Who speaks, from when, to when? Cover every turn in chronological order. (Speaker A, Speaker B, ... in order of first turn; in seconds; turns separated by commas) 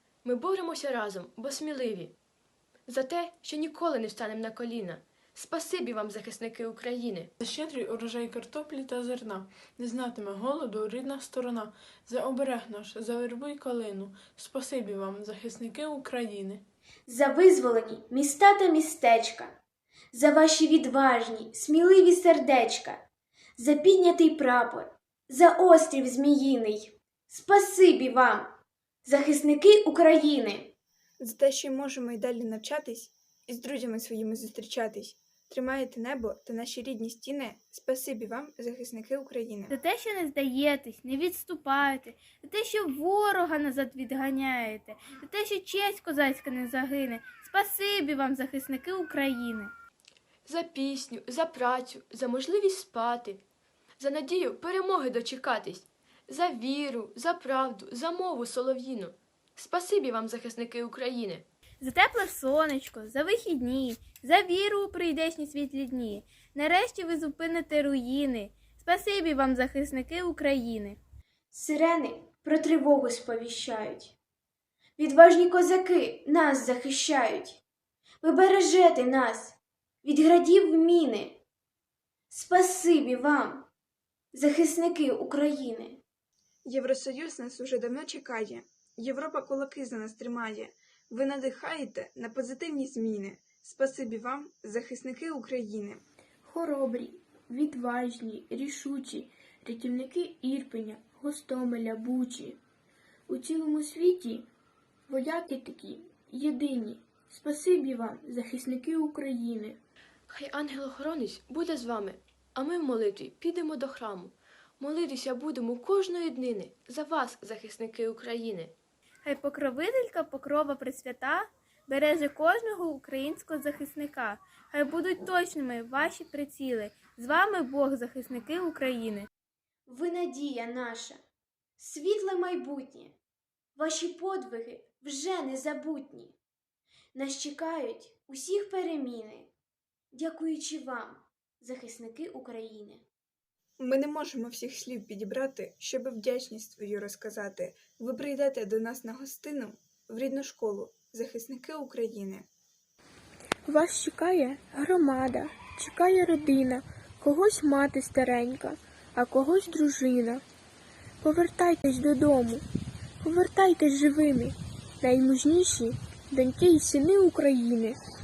Speaker A: 0.2-2.1, Speaker A: 2.9-7.3, Speaker B: 7.4-16.6, Speaker C: 17.1-19.6, Speaker C: 20.1-23.0, Speaker C: 23.6-30.7, Speaker D: 31.2-39.7, Speaker E: 39.7-49.7, Speaker A: 50.5-53.4, Speaker A: 54.0-61.5, Speaker E: 61.8-71.0, Speaker C: 71.5-74.2, Speaker C: 75.0-77.6, Speaker C: 78.2-81.4, Speaker C: 82.3-83.7, Speaker C: 84.3-86.0, Speaker D: 86.7-96.0, Speaker F: 96.4-102.6, Speaker F: 103.3-104.4, Speaker F: 105.1-109.8, Speaker A: 110.3-118.7, Speaker E: 119.2-129.3, Speaker C: 129.9-131.2, Speaker C: 131.8-133.2, Speaker C: 133.8-136.3, Speaker C: 137.1-139.5, Speaker C: 140.1-143.0, Speaker D: 143.8-152.5, Speaker F: 153.7-160.4, Speaker F: 161.2-162.6, Speaker F: 163.2-168.0